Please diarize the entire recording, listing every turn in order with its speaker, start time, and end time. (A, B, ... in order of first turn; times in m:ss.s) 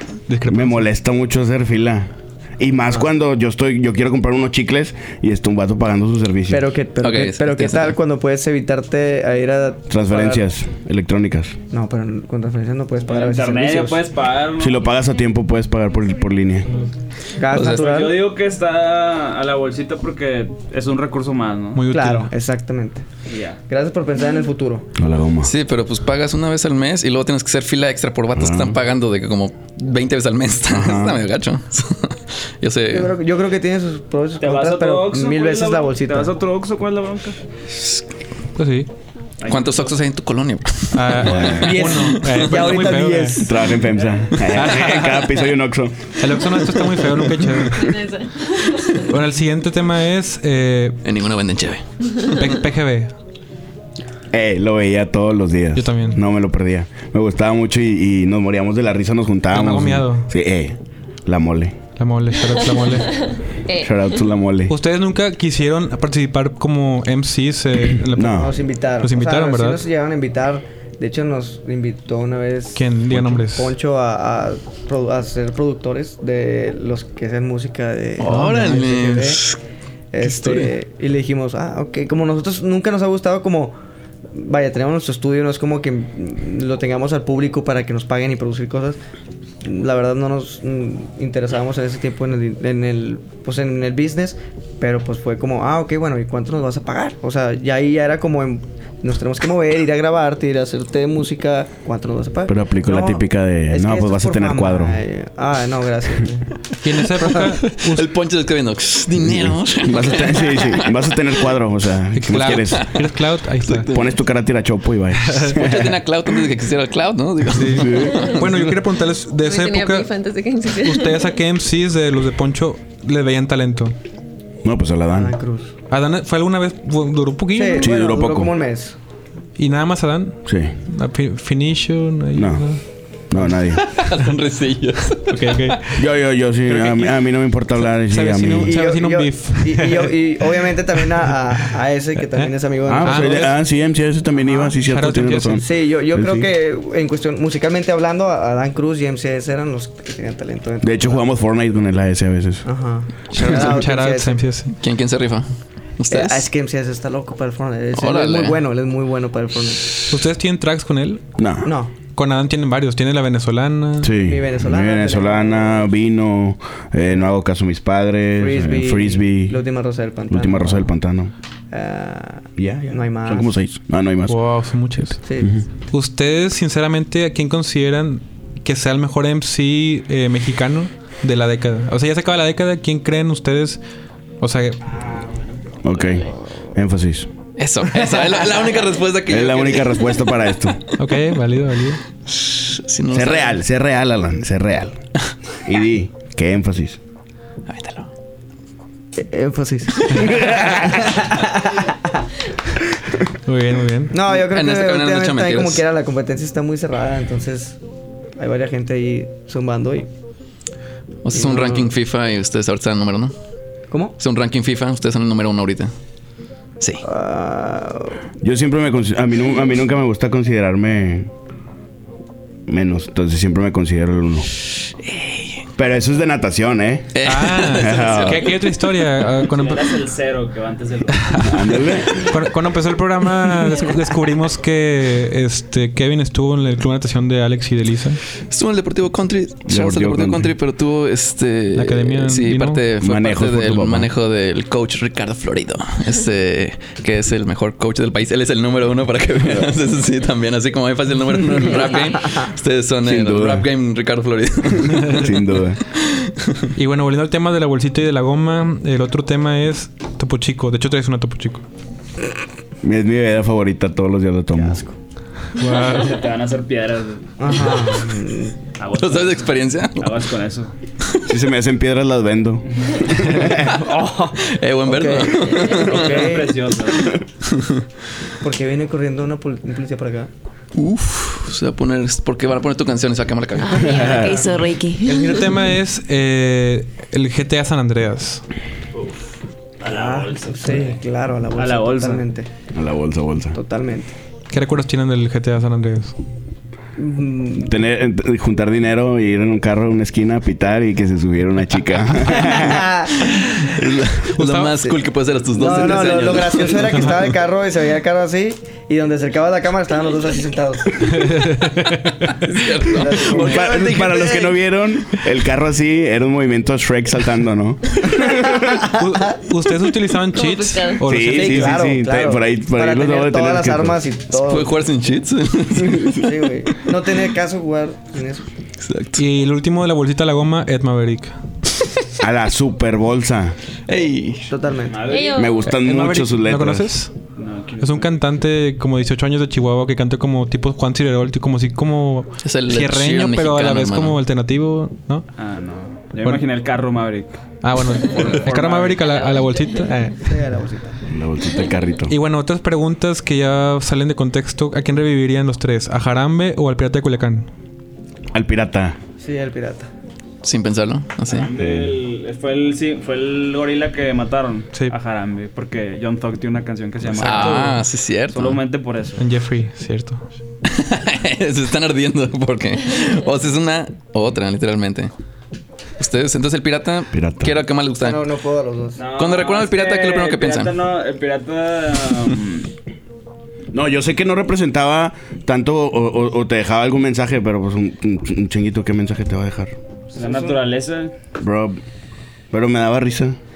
0:00.3-0:00.9 A
0:00.5-0:06.7 B
0:06.5-0:10.4 C
0:07.0-0:08.0 D
0:09.9-0:11.6 B
0:11.7-0:14.1 C
0:13.0-0:14.9 E
0:14.6-0:16.7 B
0:17.4-0:18.3 C
0:17.5-0:17.9 D
0:17.5-0:21.8 E
0:21.7-0:22.3 A
0:21.9-0:23.0 C
0:23.3-0:23.6 E
0:23.7-0:24.9 C
0:25.0-0:25.5 B
0:25.4-0:33.1 D
0:28.3-0:28.8 B
0:30.7-0:31.2 B
0:32.9-0:36.3 C
0:34.4-0:37.4 E
0:37.7-0:38.0 D
0:38.6-0:38.9 A
0:39.4-0:39.9 E
0:39.5-0:42.8 D
0:40.9-0:43.4 A
0:41.2-0:41.7 B
0:41.4-0:43.8 C
0:43.4-0:46.2 B
0:44.3-0:44.8 D
0:44.5-0:45.3 A
0:46.2-0:48.0 A
0:47.7-0:49.1 F
0:49.0-0:51.0 A
0:51.0-0:52.3 D
0:52.2-0:53.1 A
0:54.3-1:01.8 B
0:55.8-0:56.2 A
0:59.5-1:00.3 A
1:02.0-1:03.2 A
1:03.1-1:04.1 F
1:03.8-1:04.7 B
1:04.7-1:09.8 A
1:08.1-1:08.6 B
1:08.2-1:19.4 C
1:12.7-1:13.7 A
1:18.2-1:19.6 D
1:18.3-1:18.8 A
1:20.1-1:23.8 C
1:20.2-1:20.7 D
1:24.3-1:29.0 C
1:29.6-1:46.5 C
1:42.5-1:45.0 B
1:46.8-1:48.1 A
1:47.2-1:50.9 D
1:49.2-1:53.0 B
1:52.1-1:53.9 A
1:52.7-1:53.0 D
1:53.6-1:54.2 D
1:53.9-1:56.0 B
1:55.2-1:55.6 A
1:55.5-1:58.7 D
1:57.5-2:00.1 A
1:57.7-1:58.2 B
1:59.4-2:01.3 F
2:00.8-2:04.0 A
2:04.6-2:05.3 B
2:05.1-2:05.7 C
2:05.9-2:07.9 A
2:07.5-2:09.0 C
2:07.8-2:08.5 B
2:09.6-2:12.8 A
2:10.4-2:10.7 B
2:12.3-2:12.6 B
2:13.3-2:13.9 B
2:13.3-2:13.9 A
2:13.8-2:15.8 D
2:15.3-2:16.0 A
2:15.9-2:18.8 B
2:16.6-2:17.2 A
2:17.8-2:20.2 A
2:18.5-2:23.5 C
2:22.3-2:23.5 A
2:22.8-2:26.5 B
2:24.4-2:24.7 C
2:24.8-2:25.6 A
2:25.6-2:31.2 C
2:30.8-2:32.7 B
2:32.6-2:34.4 C
2:33.3-2:34.7 A
2:33.4-2:33.8 D
2:34.7-2:36.5 D
2:36.1-2:40.0 C
2:37.9-2:38.6 D
2:40.1-2:41.2 A
2:41.4-2:41.7 B
2:41.6-2:41.9 C
2:42.1-2:44.1 A
2:44.0-2:49.6 B
2:44.2-2:45.8 C
2:48.4-2:50.9 C
2:50.3-2:51.3 B
2:51.7-2:53.5 C
2:52.6-2:54.4 B
2:54.3-2:55.2 A
2:55.2-2:55.5 C
2:55.4-2:55.6 B
2:55.9-3:03.8 A
3:04.4-3:04.8 A
3:05.8-3:07.3 B
3:06.1-3:06.4 C
3:07.6-3:10.2 D
3:09.3-3:10.8 B
3:11.0-3:12.0 A
3:12.3-3:13.6 D
3:13.1-3:15.0 B
3:15.6-3:17.0 B
3:17.6-3:18.1 D
3:19.2-3:22.0 C
3:20.2-3:21.1 B
3:23.4-3:24.2 A
3:24.1-3:27.8 C
3:24.3-3:25.8 D
3:28.4-3:30.1 C
3:31.2-3:33.3 D
3:31.3-3:31.9 C
3:33.9-3:34.1 C
3:34.2-3:35.9 D
3:37.0-3:38.2 C
3:38.4-3:41.3 B
3:42.7-3:44.5 B
3:45.0-3:45.6 D
3:45.8-3:48.4 B
3:47.1-3:48.5 D
3:47.2-3:49.9 A
3:49.4-3:51.5 E
3:51.2-3:58.2 A
3:51.4-3:52.3 B
3:58.5-4:15.3 D
3:59.7-4:00.5 B
4:01.7-4:02.8 A
4:03.0-4:04.1 B
4:13.0-4:13.7 B
4:14.7-4:15.8 B
4:16.1-4:16.6 D
4:16.7-4:21.6 A
4:22.8-4:24.8 B
4:24.5-4:24.9 C
4:25.6-4:26.2 A
4:25.7-4:27.5 E
4:27.4-4:28.6 C
4:28.8-4:30.7 E
4:29.0-4:30.3 D
4:31.0-4:31.3 D
4:31.2-4:33.8 B
4:33.5-4:36.3 D
4:33.8-4:34.3 C
4:34.8-4:36.6 C
4:35.7-4:37.1 E
4:37.4-4:37.8 D
4:38.4-4:40.3 C
4:40.7-4:44.3 D
4:43.6-4:45.6 F
4:43.8-4:44.4 B
4:45.0-4:48.4 A
4:49.8-4:51.0 E
4:49.8-4:52.5 C
4:51.5-4:52.3 E
4:52.7-4:53.6 B
4:53.5-4:54.1 C
4:54.5-4:56.1 A
4:57.0-4:57.7 C
4:57.6-5:03.0 B
5:02.3-5:03.3 C
5:03.2-5:07.3 D
5:04.3-5:04.9 A
5:05.5-5:11.3 C
5:11.0-5:12.4 A
5:12.4-5:14.6 D
5:12.8-5:13.9 C
5:13.3-5:18.8 B
5:18.1-5:19.4 C
5:18.8-5:21.9 A
5:20.3-5:21.1 F
5:21.0-5:24.0 B
5:21.2-5:24.8 C
5:21.3-5:21.8 D
5:24.3-5:26.5 D
5:26.1-5:28.4 C
5:28.8-5:29.2 D
5:29.2-5:31.3 A
5:32.2-5:33.6 B
5:33.9-5:34.5 D
5:34.5-5:35.1 C
5:34.9-5:35.7 E
5:35.1-5:35.6 F
5:35.3-5:36.9 B
5:35.6-5:37.1 A
5:37.4-5:38.1 E
5:37.8-5:45.2 A
5:42.4-5:44.2 D
5:45.4-5:47.4 E
5:47.6-5:50.3 A
5:48.1-5:49.0 E
5:50.2-5:51.0 C
5:51.1-5:52.1 B
5:52.1-5:57.5 A
5:58.3-5:59.0 B
5:59.2-5:59.9 C
6:00.4-6:01.5 D
6:01.2-6:09.2 E
6:01.6-6:02.0 B
6:07.2-6:08.6 D
6:07.2-6:07.8 A
6:09.2-6:10.2 A
6:10.6-6:15.1 D
6:16.0-6:18.3 D
6:17.1-6:17.6 B
6:18.0-6:19.0 C
6:19.0-6:22.7 E
6:19.2-6:20.7 D
6:23.7-6:29.8 B
6:30.1-6:31.1 E
6:30.2-6:30.6 C
6:31.4-6:31.8 B
6:32.5-6:33.4 B